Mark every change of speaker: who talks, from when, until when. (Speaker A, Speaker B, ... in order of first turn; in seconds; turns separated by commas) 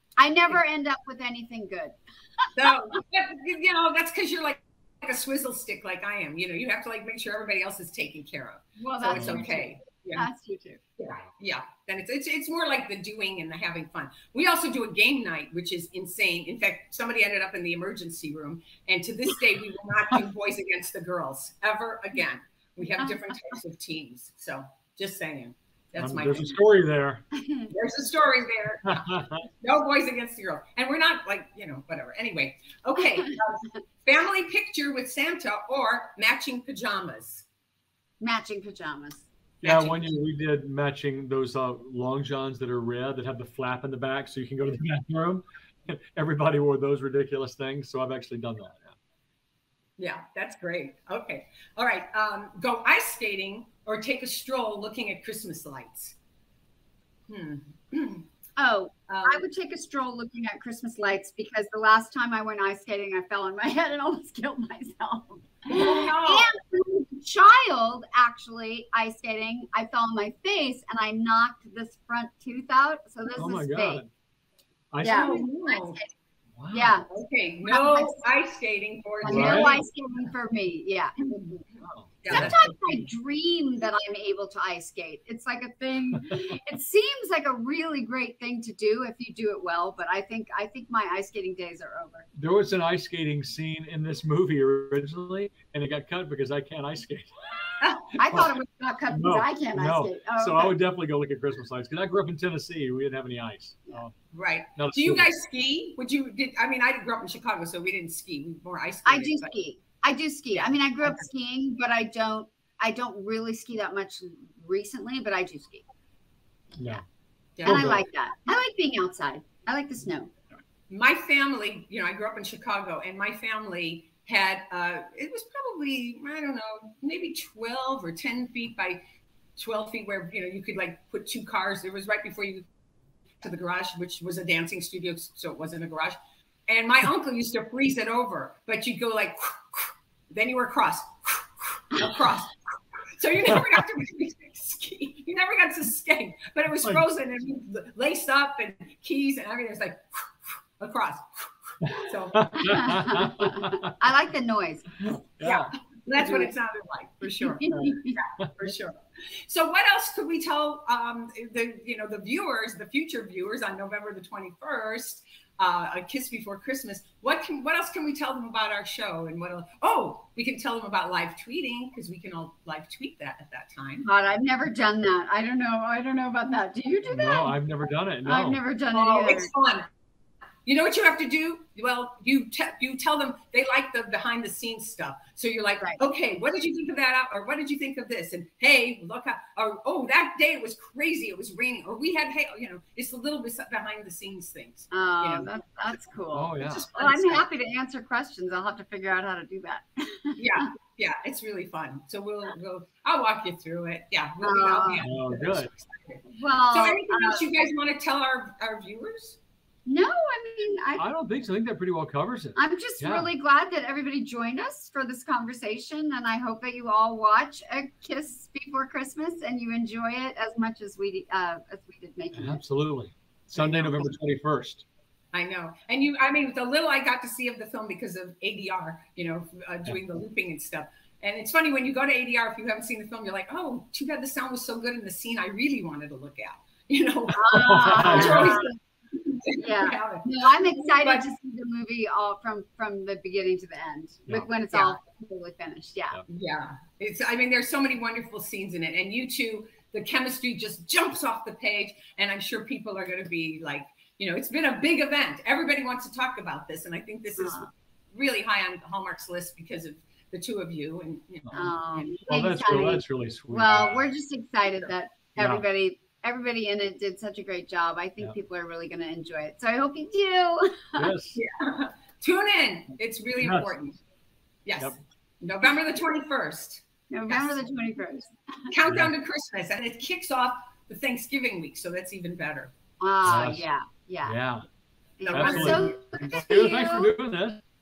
Speaker A: 0.2-2.5, Speaker B: 2.5-10.3, Speaker A: 8.8-10.8, Speaker C: 9.1-9.4, Speaker B: 11.0-26.6, Speaker C: 26.0-27.2, Speaker A: 27.4-27.7, Speaker B: 27.7-37.5, Speaker A: 38.2-39.3, Speaker C: 39.6-49.0, Speaker B: 39.6-40.1, Speaker B: 50.0-56.2, Speaker B: 57.3-58.3, Speaker A: 58.6-74.0, Speaker B: 59.1-59.4, Speaker B: 65.7-66.5, Speaker C: 73.4-74.1, Speaker C: 74.9-75.3, Speaker A: 75.0-76.1, Speaker B: 75.0-76.0, Speaker C: 76.6-77.0, Speaker A: 76.7-77.1, Speaker B: 77.1-79.8, Speaker A: 77.7-78.2, Speaker A: 79.2-81.7, Speaker C: 79.3-79.7, Speaker C: 81.8-82.6, Speaker B: 82.2-83.1, Speaker A: 82.3-92.3, Speaker C: 92.3-97.4, Speaker B: 97.8-98.1, Speaker A: 98.2-100.8, Speaker C: 98.3-98.5, Speaker C: 99.1-104.1, Speaker B: 104.3-109.5, Speaker C: 104.8-105.3, Speaker A: 109.1-115.8, Speaker B: 110.5-111.2, Speaker C: 116.8-117.0, Speaker B: 117.6-117.8, Speaker C: 117.7-118.0, Speaker A: 117.7-120.3, Speaker B: 120.9-129.0, Speaker B: 129.6-132.7, Speaker B: 133.4-136.2, Speaker B: 136.7-142.6, Speaker B: 143.2-152.8, Speaker C: 151.8-153.9, Speaker A: 152.6-155.0, Speaker C: 155.1-155.7, Speaker B: 155.4-174.1, Speaker A: 157.4-158.2, Speaker C: 157.7-158.7, Speaker A: 174.1-177.6, Speaker C: 177.1-178.6, Speaker A: 178.2-179.5, Speaker B: 178.9-179.9, Speaker B: 180.7-196.0, Speaker A: 194.9-200.7, Speaker C: 196.3-196.9, Speaker B: 196.7-197.4, Speaker B: 200.4-209.4, Speaker A: 204.4-205.0, Speaker C: 205.0-205.7, Speaker A: 206.3-207.5, Speaker A: 209.9-211.0, Speaker C: 211.0-213.3, Speaker A: 212.6-222.6, Speaker C: 222.3-224.8, Speaker B: 223.6-224.1, Speaker B: 225.3-241.3, Speaker A: 237.3-238.7, Speaker C: 237.5-238.6, Speaker A: 239.6-246.2, Speaker B: 244.7-245.0, Speaker B: 246.3-262.2, Speaker A: 257.4-257.7, Speaker A: 261.5-271.1, Speaker C: 262.3-264.1, Speaker C: 265.4-265.6, Speaker C: 271.0-271.4, Speaker B: 271.4-274.0, Speaker C: 273.4-273.7, Speaker B: 274.6-277.6, Speaker A: 277.1-278.7, Speaker B: 278.7-282.7, Speaker C: 278.9-279.1, Speaker A: 283.0-284.4, Speaker C: 283.2-283.7, Speaker C: 284.2-284.6, Speaker A: 285.2-287.1, Speaker B: 285.3-286.7, Speaker C: 285.3-287.6